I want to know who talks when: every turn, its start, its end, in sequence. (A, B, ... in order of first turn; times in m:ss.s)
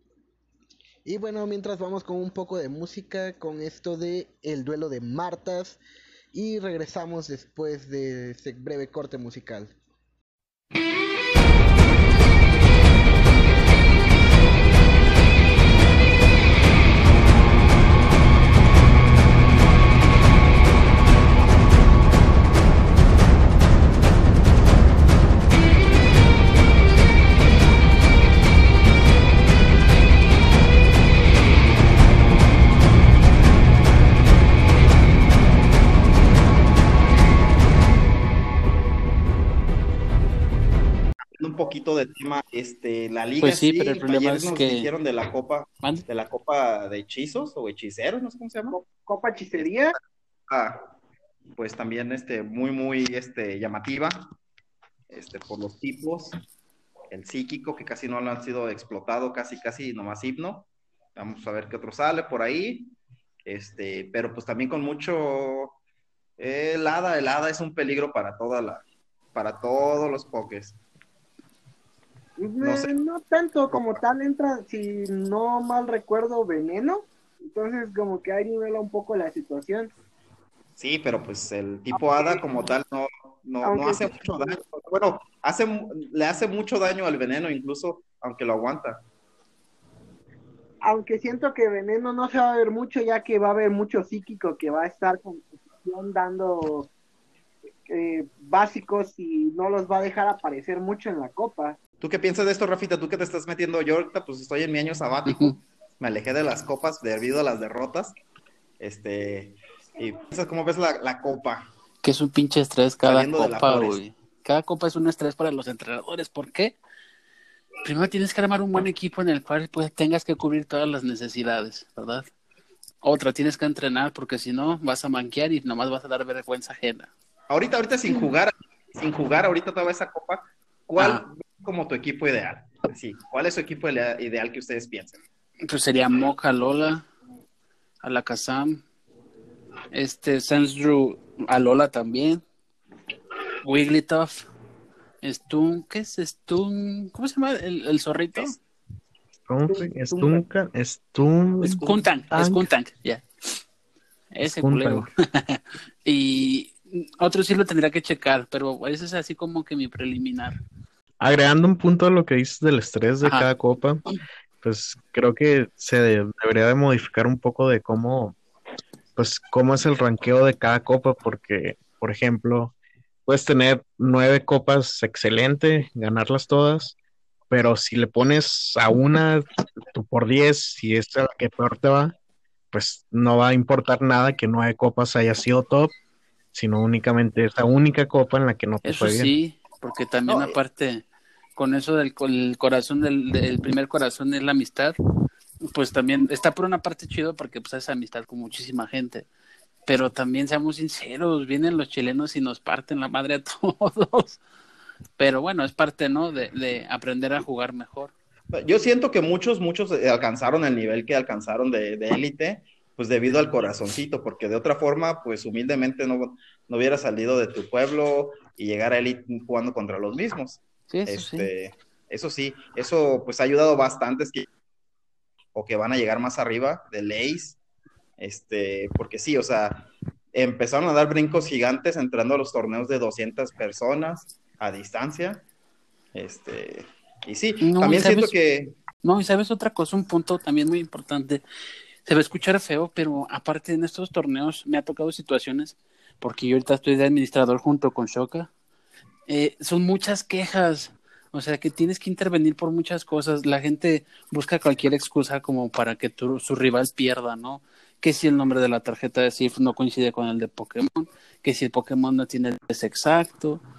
0:01.0-0:05.8 A
0:06.3-0:09.8 A
0:41.4-0:48.8 B
0:43.4-0:44.9 C
0:48.7-0:50.0 D
0:49.6-0:50.8 B
0:51.6-0:54.3 B
0:55.1-0:56.4 B
0:57.1-1:02.9 B
1:03.4-1:05.8 B
1:06.4-1:08.8 B
1:09.4-1:10.8 B
1:12.4-1:19.9 D
1:12.6-1:12.9 B
1:20.8-1:29.0 B
1:21.9-1:22.4 D
1:23.6-1:24.6 D
1:30.8-1:36.9 D
1:37.9-1:41.8 D
1:42.0-1:48.2 B
1:45.3-1:45.6 C
1:48.8-1:51.7 B
1:52.0-1:56.8 C
1:53.0-1:54.0 B
1:57.8-2:02.3 C
2:03.0-2:07.1 C
2:07.5-2:15.2 B
2:11.0-2:11.2 C
2:15.7-2:17.1 C
2:18.0-2:18.8 C
2:19.9-2:22.4 C
2:23.6-2:24.5 C
2:25.2-2:28.6 C
2:29.5-2:32.6 E
2:29.7-2:30.4 B
2:31.6-2:33.2 C
2:31.7-2:32.0 B
2:34.3-2:40.6 C
2:34.6-2:35.1 E
2:41.2-2:44.0 E
2:43.2-2:43.5 C
2:44.6-2:48.4 E
2:49.2-2:52.7 E
2:53.3-2:57.0 E
2:57.5-3:02.1 E
3:02.7-3:05.9 E
3:06.5-3:09.3 E
3:08.8-3:15.0 C
3:10.3-3:10.6 B
3:15.7-3:19.3 C
3:19.9-3:24.4 C
3:25.2-3:28.1 C
3:28.5-3:44.5 B
3:40.9-3:41.5 C
3:45.5-3:47.6 B
3:48.2-3:55.5 B
3:56.1-3:58.8 B
3:57.6-3:58.3 C
3:59.0-4:01.4 C
4:02.0-4:08.5 C
4:09.3-4:23.6 C